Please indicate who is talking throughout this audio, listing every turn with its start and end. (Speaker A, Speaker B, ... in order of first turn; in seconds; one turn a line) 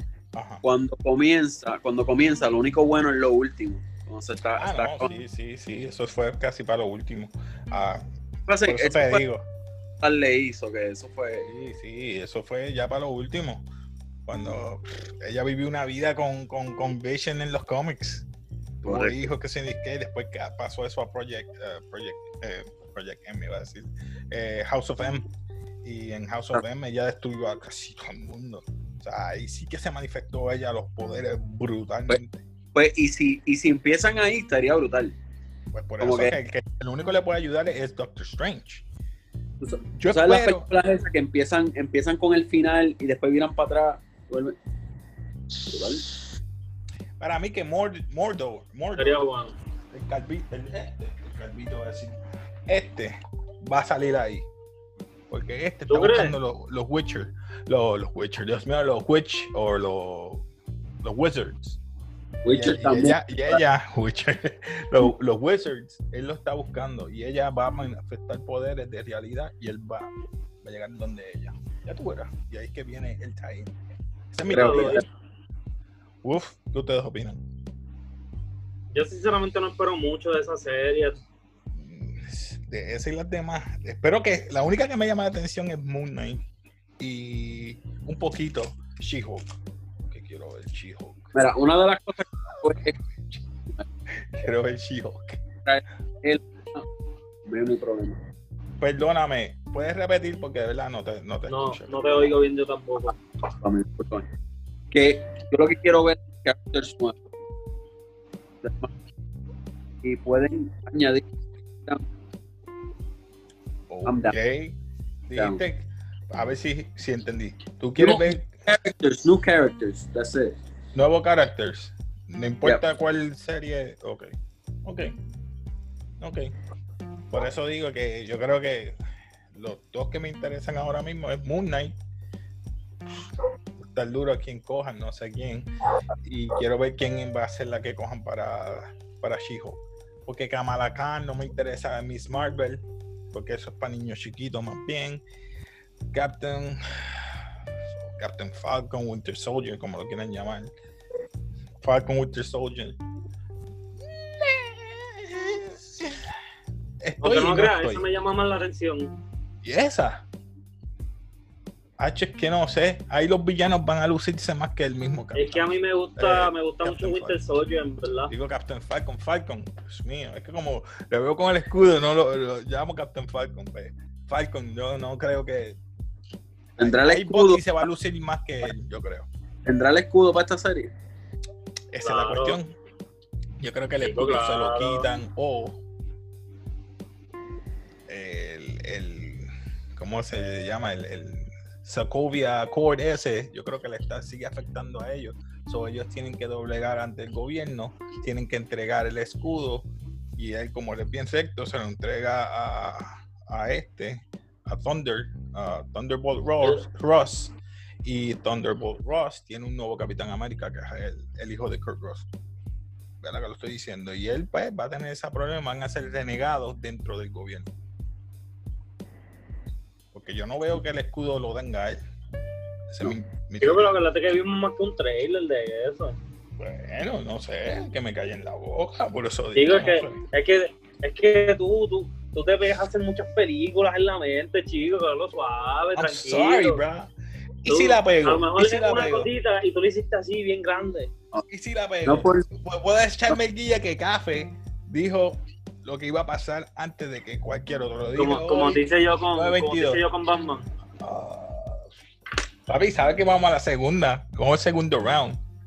Speaker A: 0.3-0.6
Speaker B: 0.6-5.1
Speaker A: 4.6-8.1
Speaker B: 8.5-9.2
Speaker A: 8.6-9.5
Speaker B: 10.0-11.5
Speaker A: 11.4-13.7
Speaker A: 14.3-18.3
Speaker A: 18.8-25.3
Speaker B: 18.9-19.2
Speaker A: 25.8-32.4
Speaker B: 32.8-35.1
Speaker A: 35.7-38.9
Speaker B: 36.0-36.4
Speaker B: 39.6-44.6
Speaker A: 40.0-40.7
Speaker B: 45.7-46.0
Speaker A: 47.2-49.2
Speaker C: 49.0-49.5
Speaker A: 49.9-54.5
Speaker A: 55.3-60.5
Speaker C: 55.9-56.4
Speaker A: 61.0-61.8
Speaker B: 62.4-63.6
Speaker A: 62.5-70.1
Speaker A: 70.6-73.7
Speaker A: 74.3-75.0
Speaker C: 74.5-75.0
Speaker B: 74.5-75.0
Speaker A: 76.2-77.4
Speaker C: 78.9-81.2
Speaker A: 81.8-86.5
Speaker A: 87.0-91.3
Speaker B: 91.3-93.0
Speaker A: 92.5-93.4
Speaker A: 94.1-95.4
Speaker B: 95.7-96.8
Speaker B: 97.5-98.2
Speaker A: 98.8-102.4
Speaker C: 101.5-103.2
Speaker B: 103.6-104.3
Speaker B: 104.9-107.2
Speaker B: 108.6-108.9
Speaker B: 110.0-111.2
Speaker A: 113.9-114.8
Speaker B: 114.0-114.4
Speaker A: 115.3-118.7
Speaker B: 115.4-115.6
Speaker B: 118.0-120.6
Speaker A: 121.0-124.3
Speaker A: 124.8-125.2
Speaker A: 126.2-126.5
Speaker A: 127.3-129.0
Speaker A: 129.5-132.0
Speaker A: 133.8-135.7
Speaker A: 136.2-145.2
Speaker A: 146.1-147.4
Speaker A: 148.1-150.7
Speaker A: 151.8-153.0
Speaker A: 154.0-156.2
Speaker A: 157.0-158.1
Speaker C: 157.2-159.2
Speaker A: 159.6-160.2
Speaker A: 162.0-167.4
Speaker C: 165.3-168.3
Speaker A: 168.3-175.8
Speaker A: 176.8-179.3
Speaker B: 176.8-177.7
Speaker B: 179.7-180.9
Speaker A: 181.9-182.7
Speaker C: 182.0-182.6
Speaker A: 183.6-185.8
Speaker C: 184.0-185.1
Speaker A: 188.1-212.3
Speaker A: 213.2-217.7
Speaker A: 220.1-222.0
Speaker A: 222.9-223.9
Speaker C: 223.6-226.2
Speaker A: 226.6-230.2
Speaker C: 229.6-236.8
Speaker A: 236.0-237.1
Speaker A: 237.6-239.3
Speaker C: 237.7-241.1
Speaker A: 241.5-250.0
Speaker B: 242.1-242.5
Speaker C: 248.2-250.7
Speaker A: 251.0-251.9
Speaker A: 252.7-255.4